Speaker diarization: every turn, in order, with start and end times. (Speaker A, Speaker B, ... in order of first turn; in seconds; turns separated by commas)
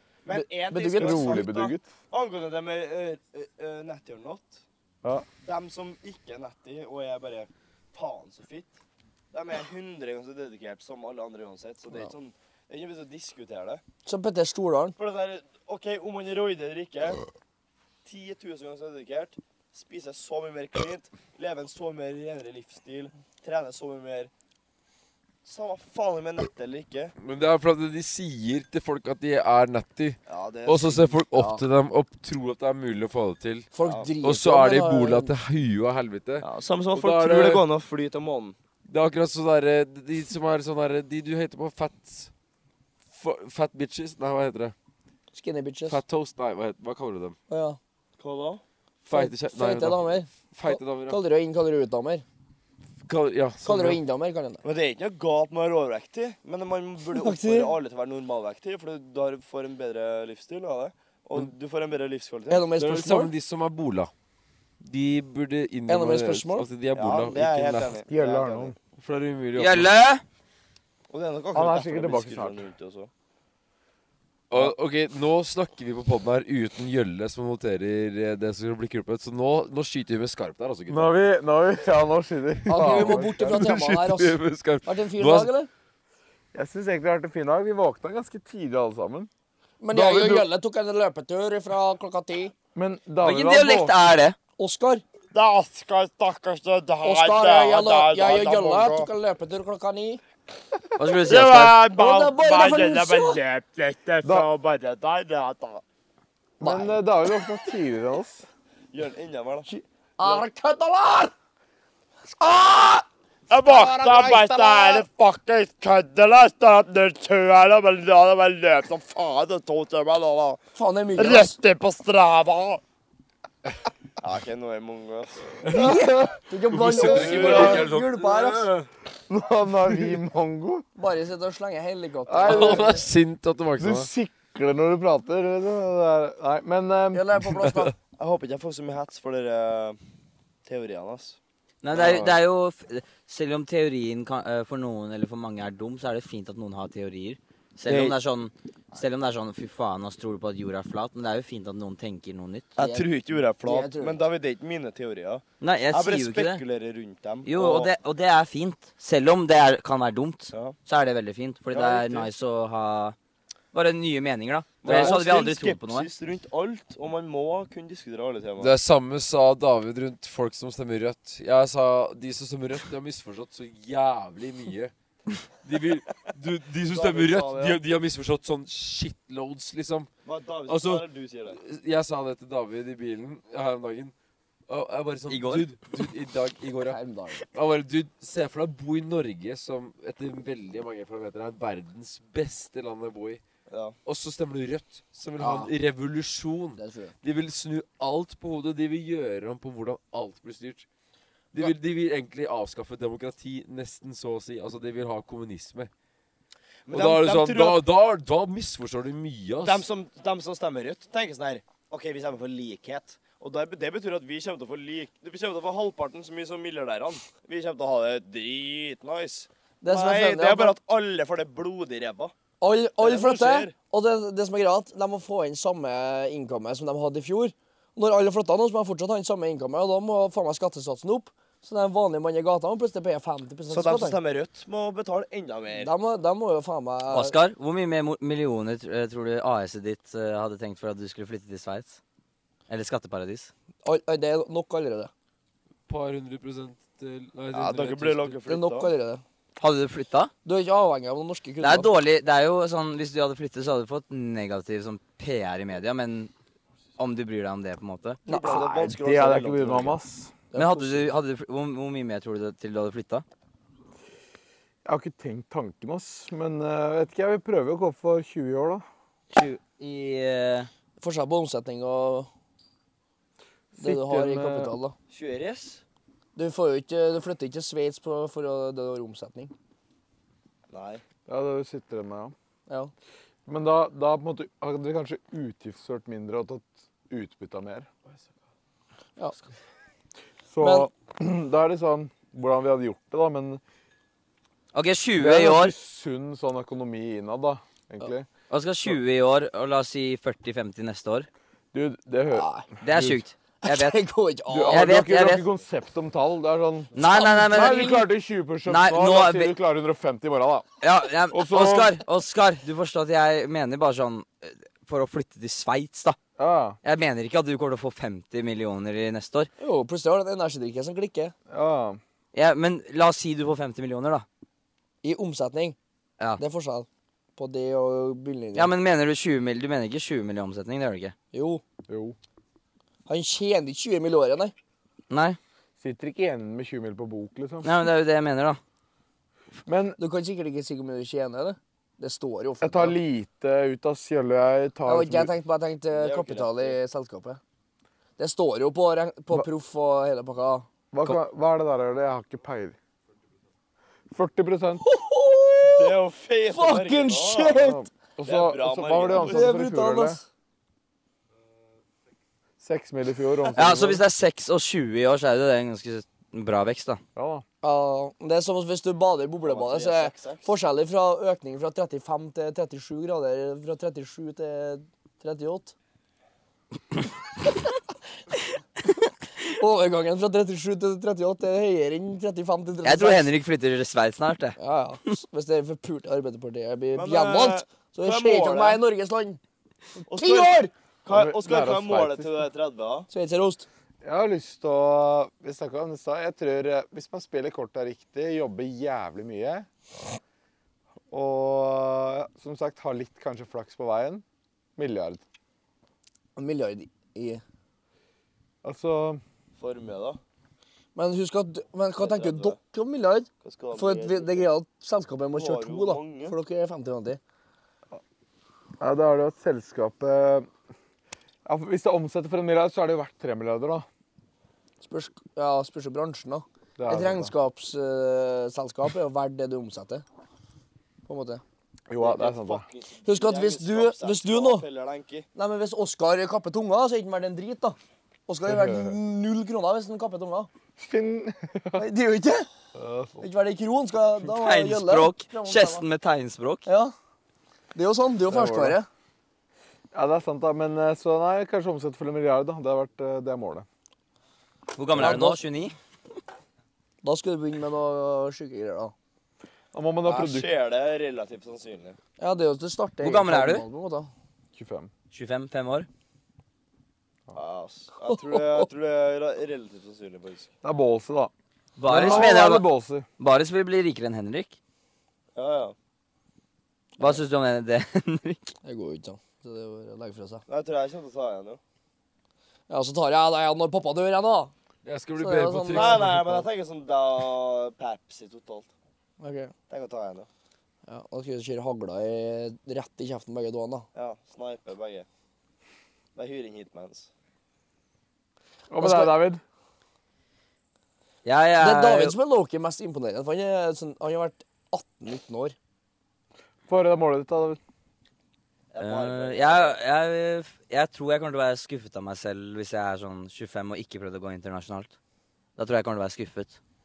Speaker A: 0.2-4.6, Speaker B: 0.3-1.4, Speaker C: 0.9-1.9, Speaker A: 5.4-8.8, Speaker A: 9.3-13.8, Speaker B: 14.1-15.0, Speaker A: 15.0-17.2, Speaker A: 18.1-24.3, Speaker A: 25.4-27.1, Speaker D: 27.2-33.7, Speaker A: 30.3-31.1, Speaker B: 31.3-31.6, Speaker B: 33.7-35.3, Speaker A: 33.8-34.1, Speaker D: 34.2-37.6, Speaker A: 36.4-38.6, Speaker D: 38.9-42.3, Speaker D: 43.1-44.7, Speaker B: 45.3-46.0, Speaker D: 45.9-47.4, Speaker B: 47.5-47.8, Speaker A: 48.2-48.6, Speaker D: 49.0-51.2, Speaker B: 49.1-52.2, Speaker D: 53.0-54.0, Speaker B: 53.6-54.6, Speaker A: 54.6-62.6, Speaker B: 57.1-57.8, Speaker B: 62.5-63.3, Speaker D: 62.8-64.1, Speaker D: 64.8-68.0, Speaker B: 65.9-66.7, Speaker A: 66.9-68.7, Speaker C: 68.1-68.8, Speaker D: 69.0-69.9, Speaker E: 69.6-70.2, Speaker A: 71.1-73.1, Speaker C: 71.5-72.7, Speaker D: 74.5-81.1, Speaker C: 80.9-83.7, Speaker D: 82.7-85.5, Speaker B: 82.7-85.7, Speaker C: 86.5-89.3, Speaker B: 89.8-92.5, Speaker C: 89.9-90.5, Speaker C: 92.8-94.0, Speaker E: 93.2-94.4, Speaker B: 94.6-95.0, Speaker A: 95.3-99.1, Speaker B: 97.0-100.2, Speaker E: 101.0-101.8, Speaker A: 101.3-105.8, Speaker B: 101.9-103.4, Speaker C: 104.2-104.5, Speaker C: 106.6-108.5, Speaker B: 106.6-106.9, Speaker A: 108.9-109.7, Speaker B: 109.7-111.3, Speaker A: 113.5-120.6, Speaker C: 113.7-115.0, Speaker B: 120.7-121.6, Speaker A: 121.2-122.8, Speaker A: 124.2-125.5, Speaker D: 125.6-126.2, Speaker B: 125.7-128.7, Speaker D: 126.7-128.2, Speaker A: 126.9-128.9, Speaker C: 129.3-130.8, Speaker B: 131.0-133.1, Speaker C: 132.3-133.1, Speaker D: 132.4-134.1, Speaker C: 133.8-137.3, Speaker B: 137.1-137.9, Speaker A: 138.2-140.0, Speaker A: 140.7-141.4, Speaker E: 141.8-152.8, Speaker A: 141.9-142.4, Speaker A: 147.9-148.2, Speaker B: 152.8-153.1, Speaker A: 152.8-157.9, Speaker B: 153.6-154.3, Speaker E: 155.6-156.6, Speaker E: 157.4-163.2, Speaker A: 160.5-160.8, Speaker A: 161.7-162.3, Speaker E: 163.7-166.1, Speaker A: 164.8-168.7, Speaker D: 164.8-165.2, Speaker D: 168.6-180.1, Speaker A: 176.9-177.8, Speaker A: 180.2-181.6, Speaker D: 180.7-184.1, Speaker D: 184.7-187.0, Speaker E: 185.3-185.7, Speaker B: 186.9-187.5, Speaker D: 187.5-193.4, Speaker A: 193.7-194.0, Speaker D: 194.1-200.9, Speaker B: 195.4-195.7, Speaker B: 196.8-197.1, Speaker D: 201.5-205.9, Speaker A: 206.9-207.8, Speaker D: 206.9-209.8, Speaker A: 209.6-222.3, Speaker B: 219.8-220.8, Speaker B: 222.6-234.2, Speaker A: 223.0-223.7, Speaker A: 233.7-235.9, Speaker B: 235.8-237.3, Speaker E: 237.1-242.0, Speaker E: 242.7-243.5, Speaker B: 243.8-245.1, Speaker D: 245.9-248.4, Speaker A: 247.5-248.9, Speaker B: 248.5-249.2, Speaker E: 249.6-250.3, Speaker B: 250.4-251.9, Speaker E: 251.6-256.3, Speaker E: 257.0-258.2, Speaker B: 258.3-258.9, Speaker A: 258.3-260.0, Speaker C: 258.5-260.4, Speaker B: 260.5-261.1, Speaker E: 260.6-263.2, Speaker C: 264.9-268.8, Speaker E: 269.3-270.7, Speaker B: 271.0-272.3, Speaker C: 273.7-274.7, Speaker B: 273.8-274.9, Speaker A: 275.1-275.8, Speaker B: 276.4-279.5, Speaker A: 280.7-281.0, Speaker C: 281.3-282.3, Speaker C: 283.5-287.9, Speaker C: 290.5-293.6, Speaker B: 290.6-290.9, Speaker E: 294.7-295.8, Speaker C: 295.2-298.3, Speaker E: 298.5-301.3, Speaker C: 301.7-303.2, Speaker B: 302.3-302.7, Speaker E: 302.8-304.0, Speaker B: 303.6-304.9, Speaker C: 304.5-306.9, Speaker E: 304.7-305.5, Speaker E: 306.9-307.9, Speaker B: 307.0-308.1, Speaker C: 307.5-310.7, Speaker E: 308.7-309.5, Speaker E: 310.8-316.2, Speaker C: 311.3-312.0, Speaker C: 316.4-316.8, Speaker E: 316.8-319.5, Speaker B: 319.6-321.3, Speaker C: 321.5-322.0, Speaker E: 322.3-324.3, Speaker B: 325.0-325.8, Speaker B: 326.4-328.7, Speaker E: 328.6-331.1, Speaker B: 331.3-331.6, Speaker C: 331.9-332.2, Speaker B: 333.1-334.5, Speaker E: 335.1-335.4, Speaker C: 335.8-337.7, Speaker E: 337.6-338.6, Speaker C: 339.7-340.0, Speaker B: 340.0-343.0, Speaker C: 342.6-345.3, Speaker B: 344.9-347.4, Speaker A: 345.9-346.8, Speaker B: 348.2-351.2, Speaker C: 350.9-352.8, Speaker C: 354.1-354.8, Speaker B: 354.8-356.0, Speaker A: 355.6-357.6, Speaker B: 356.5-357.9, Speaker C: 357.6-360.2, Speaker A: 358.2-359.5, Speaker B: 359.1-360.2, Speaker C: 362.6-364.0, Speaker E: 363.5-367.0, Speaker C: 367.2-367.4, Speaker B: 367.6-375.7, Speaker A: 369.4-370.5, Speaker B: 379.5-383.3, Speaker E: 382.8-384.6, Speaker B: 384.6-389.4, Speaker A: 386.9-388.8, Speaker A: 390.1-393.1, Speaker B: 390.1-390.7, Speaker C: 391.1-392.4, Speaker B: 393.1-393.7, Speaker C: 394.0-399.7, Speaker C: 401.1-404.2, Speaker C: 404.8-405.2, Speaker B: 406.4-407.4, Speaker C: 408.6-409.2, Speaker A: 409.6-410.2, Speaker B: 411.0-417.2, Speaker A: 412.0-412.6, Speaker A: 413.4-414.5, Speaker A: 415.3-416.4, Speaker C: 418.8-420.5, Speaker C: 421.5-423.9, Speaker B: 424.8-430.1, Speaker C: 426.8-427.3, Speaker B: 431.1-431.4, Speaker C: 431.9-432.6, Speaker A: 432.0-435.3, Speaker B: 433.1-434.6, Speaker B: 435.4-440.5, Speaker C: 438.5-439.0, Speaker C: 440.8-441.8, Speaker B: 441.8-442.5, Speaker C: 442.8-443.2, Speaker B: 443.2-445.8, Speaker E: 444.2-446.6, Speaker B: 446.7-446.9, Speaker B: 447.8-448.9, Speaker C: 448.3-448.8, Speaker C: 449.9-453.7, Speaker E: 454.7-455.8, Speaker B: 454.9-455.4, Speaker B: 457.0-458.9, Speaker C: 459.7-460.5, Speaker A: 460.1-462.0, Speaker B: 462.2-464.1, Speaker E: 463.0-463.6, Speaker C: 464.5-464.9, Speaker E: 465.1-465.9, Speaker A: 467.4-470.5, Speaker B: 468.1-468.6, Speaker C: 470.6-471.3, Speaker E: 471.8-472.7, Speaker C: 471.9-473.1, Speaker B: 471.9-472.2, Speaker E: 473.2-474.6, Speaker A: 475.4-475.8, Speaker E: 477.0-478.4, Speaker B: 478.6-480.4, Speaker A: 480.5-481.6, Speaker B: 482.7-484.5, Speaker D: 484.9-486.5, Speaker B: 485.2-486.1, Speaker A: 485.7-488.7, Speaker B: 489.2-489.5, Speaker A: 489.7-490.3, Speaker B: 490.9-493.9, Speaker A: 493.9-495.1, Speaker A: 496.2-497.1, Speaker C: 498.7-499.4, Speaker B: 498.8-499.2, Speaker E: 501.2-502.1, Speaker B: 501.6-505.6, Speaker C: 506.7-507.6, Speaker A: 508.7-509.8, Speaker E: 508.8-514.9, Speaker E: 515.6-516.6